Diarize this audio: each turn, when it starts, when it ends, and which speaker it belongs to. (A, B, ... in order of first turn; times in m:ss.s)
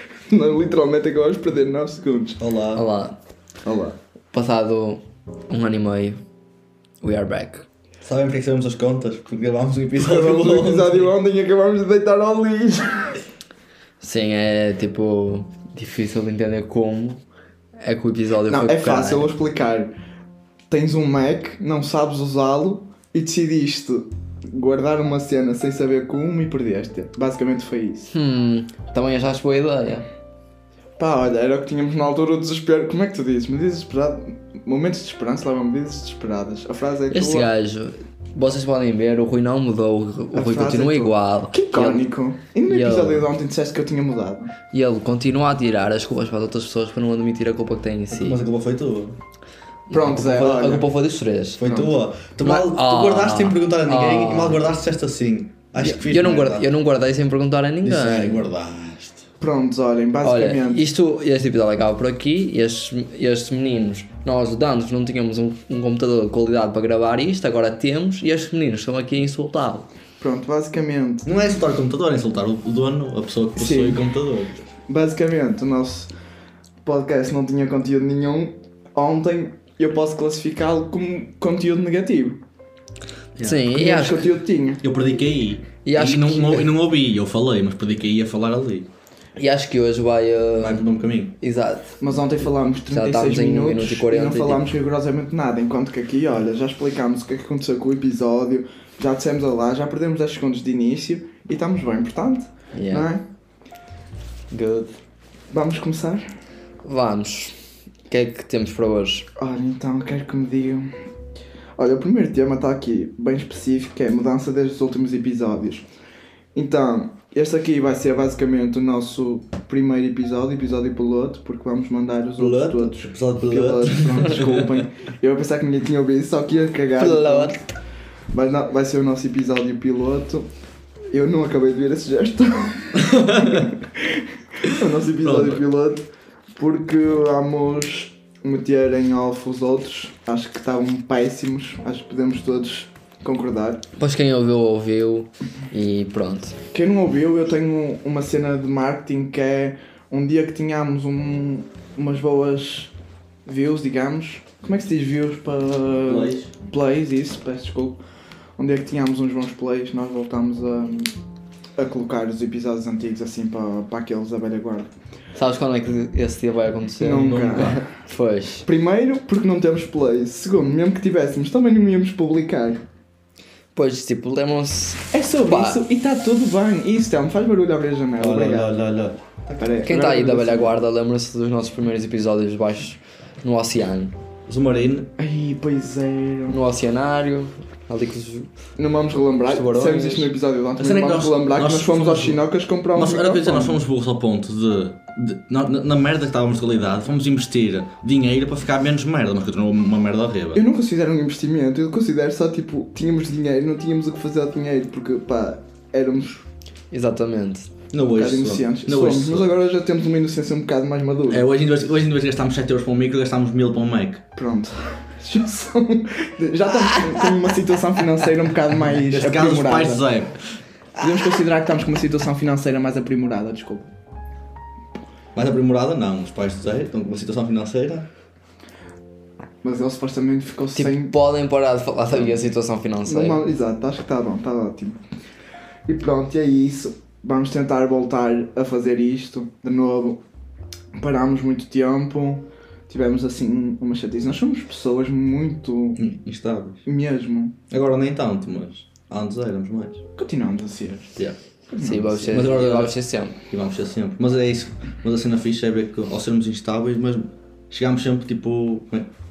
0:00.3-0:02.4 A
0:02.4-0:02.8 B
0:02.7-0:03.2 C
0:03.6-0:04.0 A
0:04.3-0:06.2 C
0:07.0-0:07.6 C
0:08.0-0:11.1 B
0:10.0-0:13.2 A
0:14.0-0:17.2 C
0:17.8-0:19.3 C
0:18.5-0:19.9 A
0:20.7-0:28.1 A
0:28.1-0:30.0 C
0:31.0-0:37.5 A
0:37.1-0:42.1 C
0:40.3-0:44.5 A
0:42.6-0:43.3 C
0:44.7-0:48.4 C
0:48.1-0:49.2 B
0:49.9-0:51.9 C
0:49.9-0:50.9 A
0:51.6-0:56.7 B
0:52.4-0:54.6 C
0:55.8-0:58.5 C
0:57.8-0:59.2 B
0:59.4-1:00.9 A
1:00.2-1:09.9 C
1:10.2-1:11.3 A
1:11.2-1:14.6 B
1:13.6-1:14.0 A
1:14.9-1:16.1 A
1:16.8-1:22.4 A
1:23.4-1:24.3 C
1:23.7-1:24.8 A
1:24.8-1:28.9 B
1:25.8-1:26.7 C
1:29.4-1:30.9 C
1:30.6-1:31.3 B
1:31.4-1:32.0 C
1:32.0-1:43.2 A
1:32.9-1:34.6 C
1:42.7-1:43.1 C
1:44.5-1:44.9 C
1:45.5-1:46.3 A
1:46.8-1:47.5 C
1:48.1-1:49.3 C
1:49.4-1:50.9 A
1:51.8-1:55.8 A
1:56.5-2:07.6 A
2:02.4-2:04.8 B
2:07.0-2:07.6 C
2:08.3-2:10.5 A
2:11.1-2:16.0 A
2:13.0-2:13.6 B
2:15.2-2:15.6 B
2:16.6-2:23.8 A
2:24.0-2:26.6 C
2:26.7-2:32.9 A
2:33.4-2:38.0 A
2:36.0-2:36.5 B
2:38.6-2:41.1 A
2:41.8-2:44.9 A
2:45.3-2:48.6 C
2:47.0-2:47.9 A
2:48.6-2:52.8 A
2:53.7-2:55.8 C
2:55.1-2:58.8 A
2:58.2-2:59.7 B
2:59.6-3:00.7 A
2:59.8-3:04.1 C
3:04.5-3:05.1 B
3:05.2-3:06.6 A
3:06.5-3:08.5 C
3:08.8-3:13.8 A
3:09.5-3:10.3 C
3:10.8-3:12.4 B
3:12.9-3:20.6 B
3:20.5-3:26.4 A
3:26.9-3:27.7 C
3:27.9-3:29.5 B
3:28.1-3:31.4 A
3:31.3-3:34.2 B
3:34.4-3:40.0 A
3:39.1-3:40.6 B
3:41.0-3:43.9 A
3:45.3-3:48.1 B
3:49.6-3:51.1 A
3:50.8-3:53.4 C
3:53.0-3:55.0 A
3:55.9-4:00.2 A
4:00.9-4:06.0 A
4:06.0-4:06.8 B
4:06.8-4:07.6 A
4:07.7-4:10.0 B
4:10.2-4:11.2 A
4:11.7-4:12.4 A
4:11.8-4:13.4 C
4:12.3-4:12.9 B
4:13.5-4:19.1 B